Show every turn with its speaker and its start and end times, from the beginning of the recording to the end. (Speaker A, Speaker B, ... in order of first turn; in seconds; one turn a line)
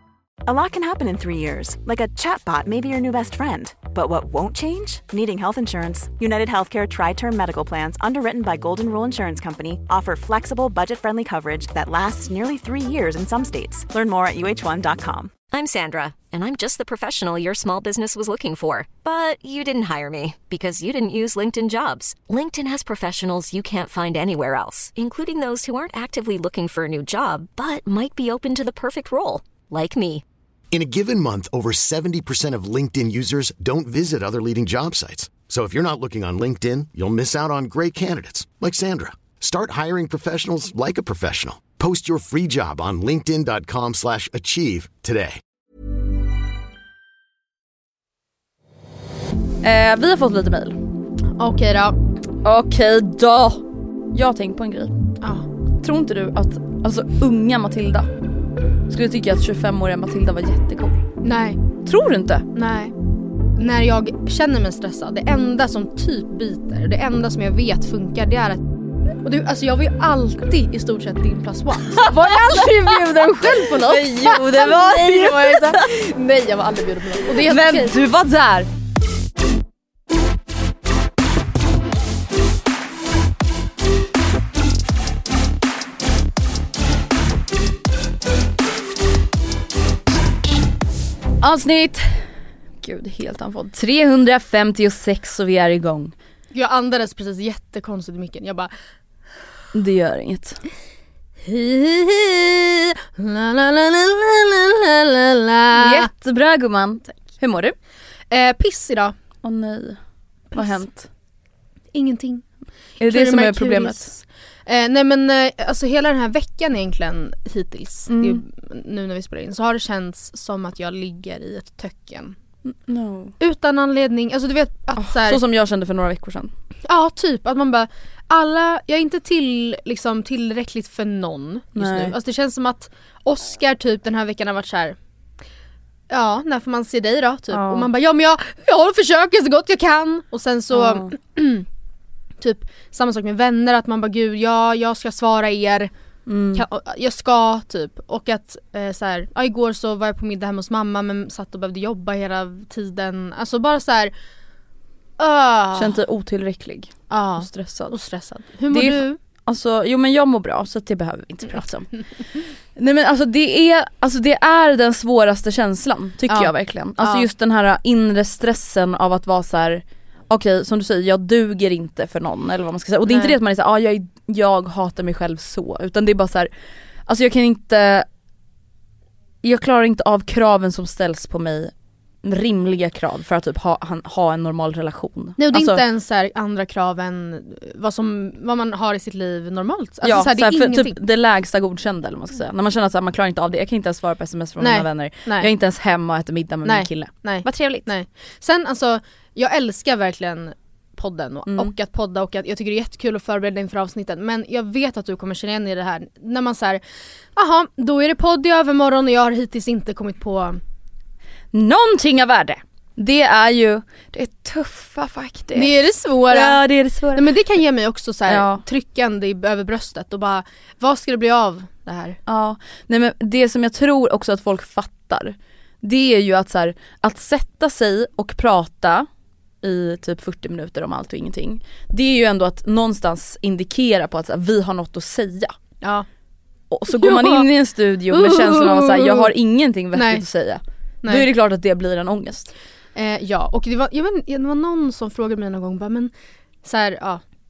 Speaker A: 0.5-15.3
Speaker B: 15.5-30.2
Speaker C: 30.7-45.4
Speaker D: 49.6-50.8
Speaker E: 51.4-52.0
Speaker D: 52.4-55.1
Speaker E: 55.2-55.5
Speaker D: 55.8-58.1
Speaker D: 58.9-61.0
Speaker E: 61.2-61.6
Speaker D: 61.8-62.5
Speaker E: 62.5-62.9
Speaker E: 63.6-68.6
Speaker E: 69.2-78.0
Speaker D: 71.9-75.8
Speaker D: 77.3-78.7
Speaker D: 91.4-96.1
Speaker E: 96.5-98.7
Speaker D: 99.7-100.6
Speaker E: 101.4-106.1
Speaker D: 105.7-107.8
Speaker E: 108.3-109.1
Speaker D: 109.4-110.0
Speaker E: 110.5-110.8
Speaker D: 110.5-111.1
Speaker E: 111.9-112.5
Speaker D: 113.0-114.1
Speaker E: 113.0-122.3
Speaker D: 118.1-118.4
Speaker D: 122.6-123.3
Speaker E: 123.4-125.4
Speaker D: 125.0-126.5
Speaker E: 126.9-135.0
Speaker D: 131.8-132.1
Speaker E: 136.1-141.7
Speaker D: 137.5-137.9
Speaker D: 140.7-141.1
Speaker E: 142.4-145.9
Speaker D: 146.2-146.6
Speaker E: 146.5-154.1
Speaker E: 155.2-156.0
Speaker D: 155.7-157.9
Speaker E: 157.1-159.2
Speaker D: 158.7-161.9
Speaker D: 162.7-176.5
Speaker E: 166.3-167.3
Speaker E: 173.1-173.3
Speaker D: 177.1-178.1
Speaker D: 179.4-185.8
Speaker E: 185.4-190.9
Speaker D: 190.0-197.9
Speaker E: 194.6-195.5
Speaker E: 196.6-206.8
Speaker D: 201.5-201.7
Speaker E: 207.3-210.6
Speaker D: 211.5-215.7
Speaker E: 215.5-216.6
Speaker D: 216.3-217.3
Speaker E: 217.1-222.2
Speaker D: 218.3-218.6
Speaker D: 222.3-229.1
Speaker D: 229.6-235.5
Speaker D: 236.7-242.5
Speaker E: 236.9-237.5
Speaker E: 238.1-239.3
Speaker E: 239.9-240.2
Speaker E: 242.9-246.1
Speaker E: 246.6-247.2